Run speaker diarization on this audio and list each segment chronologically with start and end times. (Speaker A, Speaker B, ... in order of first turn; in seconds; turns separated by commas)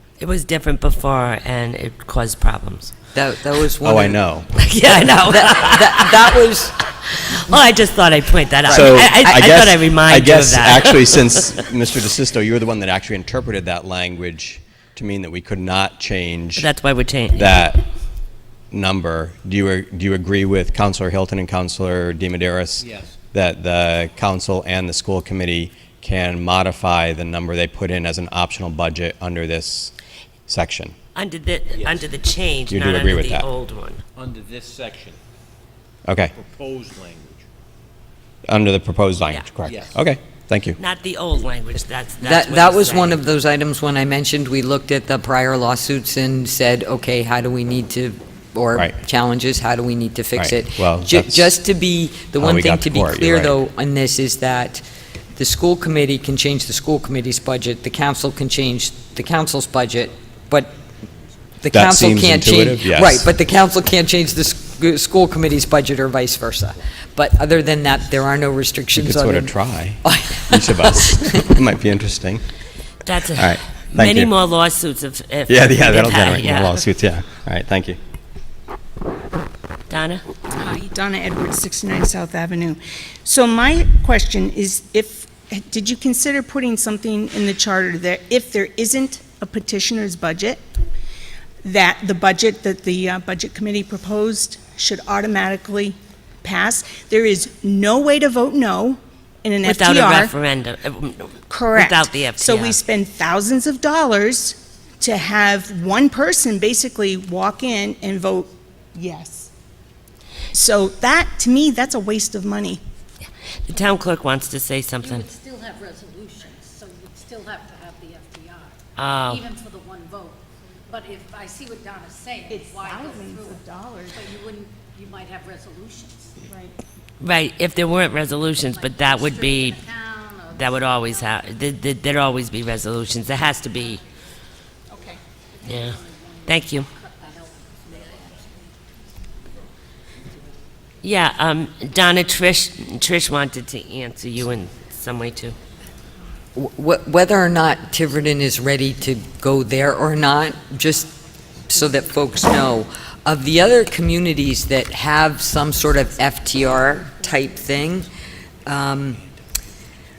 Speaker A: 0.2-2.9, Speaker B: 3.1-4.2, Speaker C: 3.8-4.6, Speaker A: 4.6-6.1, Speaker B: 4.9-6.7, Speaker A: 7.1-11.3, Speaker C: 8.7-16.7, Speaker A: 16.6-17.6, Speaker C: 17.3-17.9, Speaker C: 18.7-29.9, Speaker C: 30.5-30.9, Speaker A: 31.1-34.0, Speaker C: 32.7-33.5, Speaker D: 34.2-35.2, Speaker C: 36.0-36.3, Speaker D: 36.4-37.5, Speaker C: 38.5-40.8, Speaker A: 40.8-43.2, Speaker B: 42.2-54.8, Speaker C: 50.3-51.5, Speaker C: 52.4-53.6, Speaker B: 55.4-60.8, Speaker B: 61.6-71.5, Speaker C: 61.7-63.3, Speaker C: 68.9-72.4, Speaker A: 73.0-76.8, Speaker C: 73.3-74.3, Speaker C: 75.5-78.0, Speaker A: 79.9-80.2, Speaker E: 80.5-90.6, Speaker E: 91.6-100.3, Speaker A: 99.6-102.8, Speaker E: 101.5-109.5, Speaker E: 110.5-112.8, Speaker A: 113.7-115.3, Speaker F: 115.0-118.7, Speaker A: 119.0-119.4, Speaker F: 119.3-122.5, Speaker E: 122.5-124.4, Speaker F: 123.1-123.5, Speaker F: 124.2-126.3, Speaker E: 126.4-126.7, Speaker A: 127.2-129.8, Speaker F: 128.9-130.8, Speaker A: 130.5-134.0, Speaker E: 134.9-135.2, Speaker F: 135.6-138.0, Speaker A: 135.7-136.9, Speaker A: 141.0-145.6, Speaker B: 146.5-158.1, Speaker B: 158.7-159.2